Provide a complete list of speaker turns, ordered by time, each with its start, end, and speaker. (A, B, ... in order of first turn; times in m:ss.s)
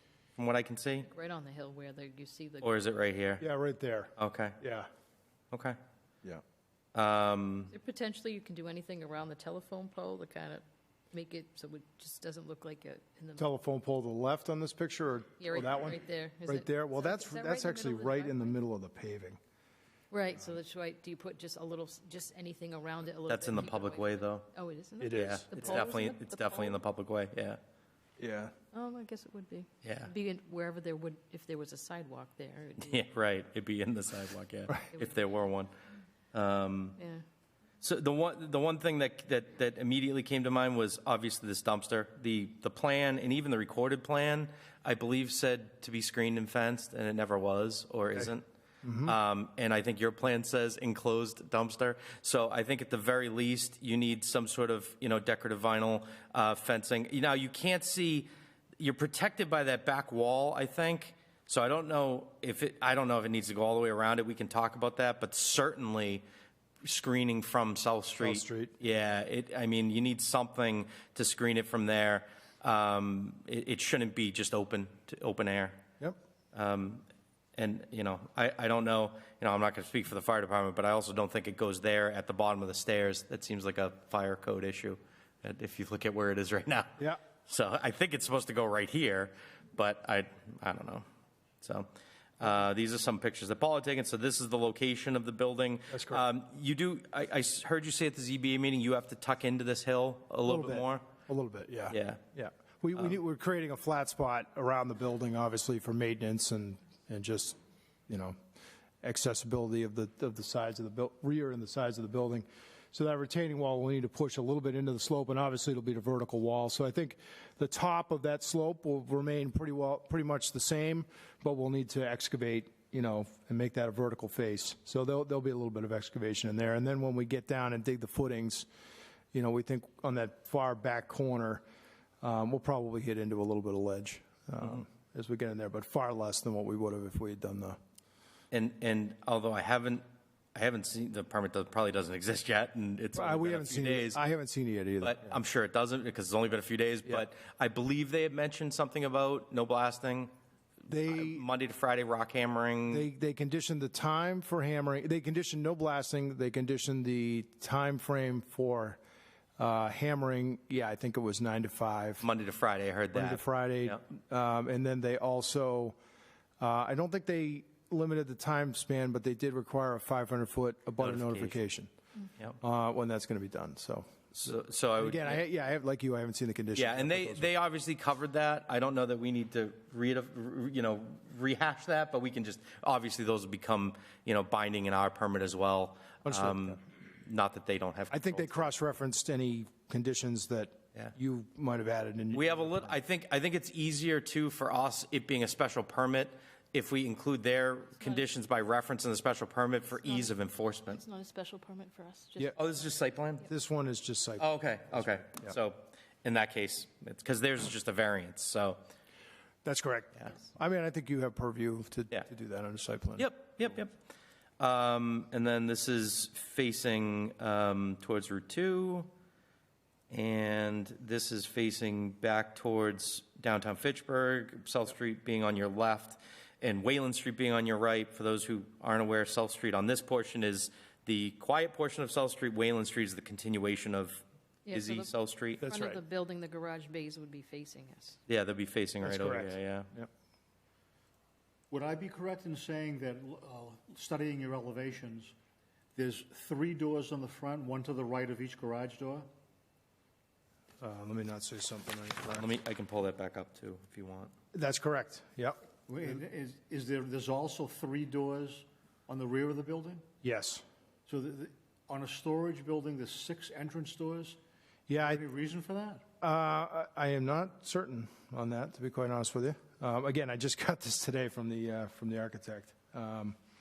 0:00.4-0:01.1 A
0:01.1-0:02.8 B
0:02.6-0:03.4 A
0:03.4-0:04.9 C
0:04.2-0:04.6 A
0:05.5-0:05.8 A
0:07.0-0:07.7 A
0:07.7-0:13.5 B
0:13.4-0:19.4 C
0:15.4-0:18.6 B
0:20.1-0:26.8 B
0:23.3-0:24.5 A
0:25.0-0:25.9 C
0:25.1-0:27.6 A
0:28.2-0:28.5 C
0:28.7-0:33.1 B
0:29.8-0:30.1 A
0:32.8-0:35.7 A
0:36.3-0:37.0 A
0:37.0-0:37.2 B
0:37.8-0:48.4 A
0:48.8-0:49.2 C
0:49.0-1:06.2 A
1:06.8-1:15.8 A
1:08.2-1:08.7 C
1:16.5-1:17.0 A
1:17.6-1:31.0 A
1:31.6-1:41.1 A
1:35.9-1:36.2 C
1:40.4-1:47.6 C
1:41.9-1:42.2 A
1:48.1-1:48.4 C
1:49.0-2:08.7 C
2:09.3-2:11.6 C
2:12.2-2:17.8 C
2:18.5-2:20.0 A
2:20.6-2:24.2 A
2:23.2-2:25.4 C
2:25.0-2:30.3 A
2:30.9-2:31.4 C
2:31.1-2:33.1 A
2:32.9-2:39.0 C
2:39.6-2:42.2 C
2:42.2-2:44.0 A
2:43.1-2:46.0 C
2:46.6-2:51.9 C
2:51.0-2:51.6 A
2:52.6-2:57.5 C
2:54.3-2:55.4 A
2:56.8-3:08.7 A
3:06.2-3:06.8 C
3:08.1-3:13.0 C
3:12.3-3:21.0 A
3:20.0-3:20.3 B
3:20.9-3:22.7 B
3:22.6-3:23.5 A
3:23.4-3:25.6 C
3:24.4-3:28.8 A
3:29.6-3:33.3 C
3:33.2-3:34.0 A
3:34.6-3:39.1 A
3:40.1-3:55.6 A
3:54.7-3:58.2 B
3:55.6-3:56.0 C
3:58.3-3:59.9 A
3:59.0-4:00.1 C
4:01.7-4:05.3 D
4:06.0-4:09.3 D
4:10.8-4:12.5 C
4:12.3-4:14.3 A
4:14.5-4:15.6 C
4:15.9-4:20.0 D
4:20.2-4:20.6 C
4:21.1-4:24.4 D
4:24.9-4:25.2 C
4:25.0-4:26.0 D
4:26.2-4:33.4 C